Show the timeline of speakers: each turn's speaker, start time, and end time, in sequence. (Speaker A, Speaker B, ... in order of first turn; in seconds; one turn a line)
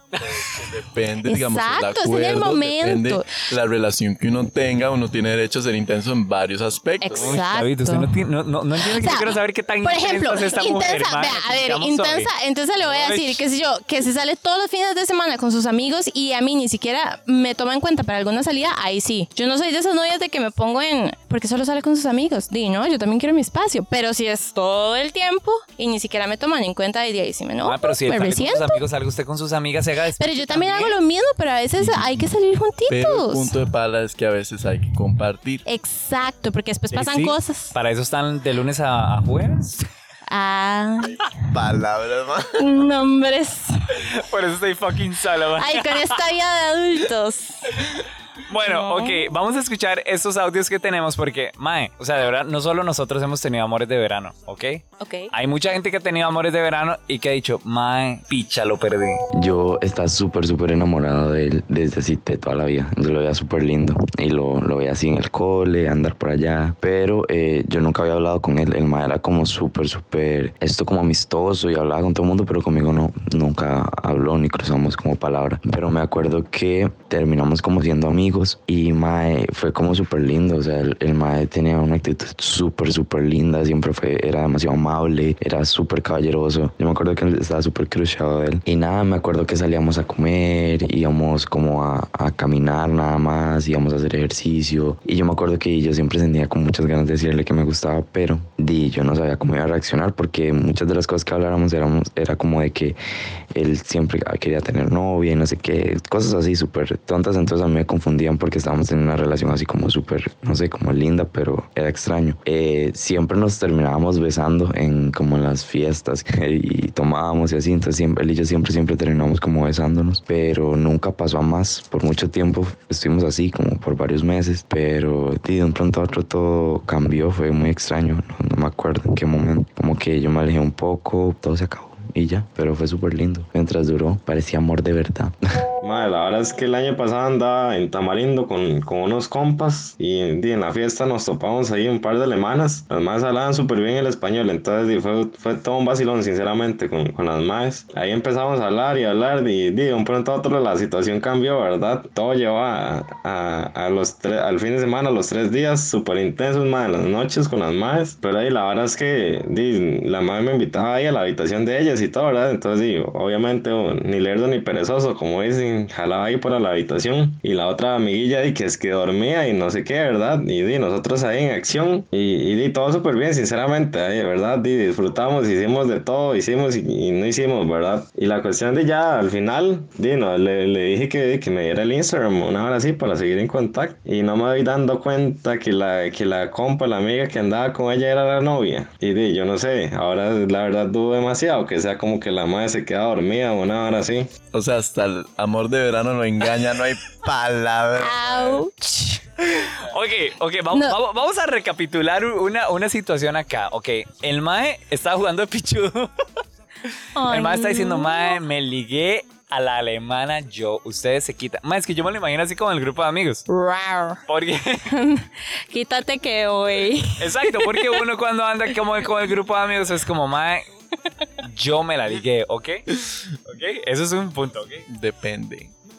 Speaker A: 0.2-7.4
Speaker B: 1.2-3.3
Speaker B: 7.0-8.1
Speaker C: 7.2-12.3
Speaker B: 8.8-28.8
Speaker C: 12.8-13.4
Speaker C: 27.6-30.9
Speaker B: 30.2-33.5
Speaker A: 31.8-32.3
Speaker A: 32.9-35.6
Speaker B: 35.6-37.7
Speaker C: 36.9-39.9
Speaker B: 40.3-41.5
Speaker A: 41.5-42.6
Speaker B: 42.6-43.8
Speaker C: 43.9-46.1
Speaker B: 45.5-47.9
Speaker C: 48.5-59.2
Speaker B: 48.6-49.3
Speaker B: 55.0-55.3
Speaker D: 59.3-103.0
Speaker D: 103.5-135.3
Speaker E: 135.8-194.3
Speaker A: 194.5-198.6
Speaker B: 198.0-199.2
Speaker C: 199.7-206.1
Speaker B: 200.7-201.0
Speaker B: 207.1-208.4
Speaker C: 207.3-213.4
Speaker B: 213.5-214.2
Speaker C: 214.3-214.9
Speaker B: 214.9-218.0
Speaker C: 217.2-220.6
Speaker C: 221.4-222.8
Speaker C: 223.4-224.8
Speaker A: 224.9-225.7